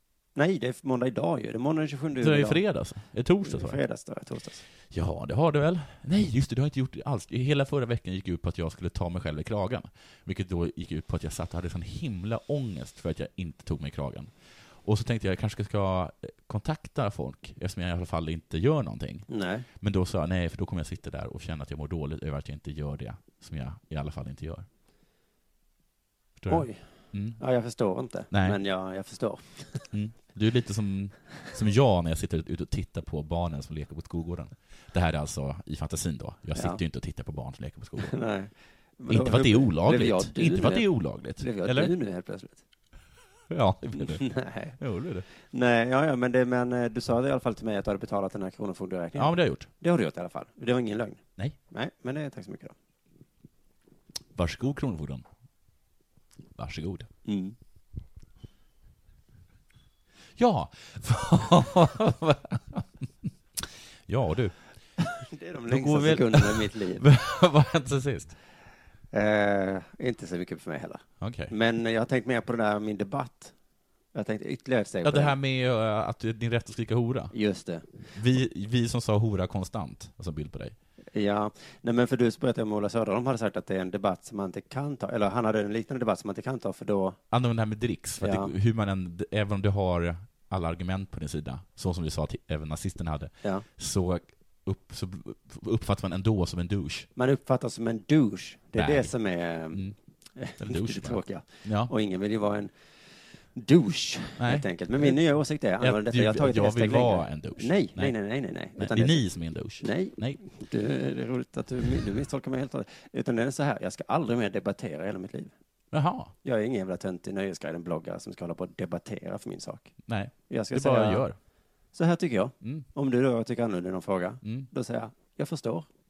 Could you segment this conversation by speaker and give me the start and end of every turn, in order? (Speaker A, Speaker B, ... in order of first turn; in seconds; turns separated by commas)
Speaker A: 0.4-2.6, Speaker B: 2.2-3.8, Speaker A: 3.5-4.6, Speaker B: 4.9-14.3, Speaker B: 14.8-19.3, Speaker A: 19.3-19.7, Speaker B: 19.8-24.7, Speaker B: 26.4-27.4, Speaker A: 26.5-26.8, Speaker A: 27.4-29.8, Speaker B: 28.3-28.6, Speaker B: 29.9-38.2, Speaker A: 38.0-40.9, Speaker B: 39.1-41.9, Speaker A: 41.4-42.6, Speaker B: 43.5-44.3, Speaker A: 44.0-44.8, Speaker B: 44.8-45.2, Speaker A: 45.5-52.8, Speaker B: 49.2-49.7, Speaker B: 54.4-55.2, Speaker B: 56.5-57.1, Speaker A: 57.3-57.5, Speaker B: 60.4-62.9, Speaker B: 63.6-64.5, Speaker A: 65.3-67.0, Speaker B: 65.7-68.3, Speaker A: 69.1-73.5, Speaker B: 71.2-71.5, Speaker A: 74.1-75.3, Speaker B: 75.0-77.3, Speaker A: 77.3-77.8, Speaker B: 78.2-80.8, Speaker A: 81.1-87.2, Speaker B: 87.3-97.1, Speaker A: 88.2-88.5, Speaker A: 97.2-99.8, Speaker B: 98.8-99.1, Speaker A: 100.4-102.7, Speaker B: 100.6-101.9, Speaker A: 103.5-109.2, Speaker B: 104.4-105.2, Speaker B: 105.8-108.2, Speaker B: 108.8-110.4, Speaker A: 109.8-115.5, Speaker B: 115.9-116.3, Speaker A: 116.4-119.9, Speaker B: 120.1-121.4, Speaker A: 120.5-121.2, Speaker A: 121.9-125.9, Speaker B: 122.6-122.9, Speaker B: 124.4-124.7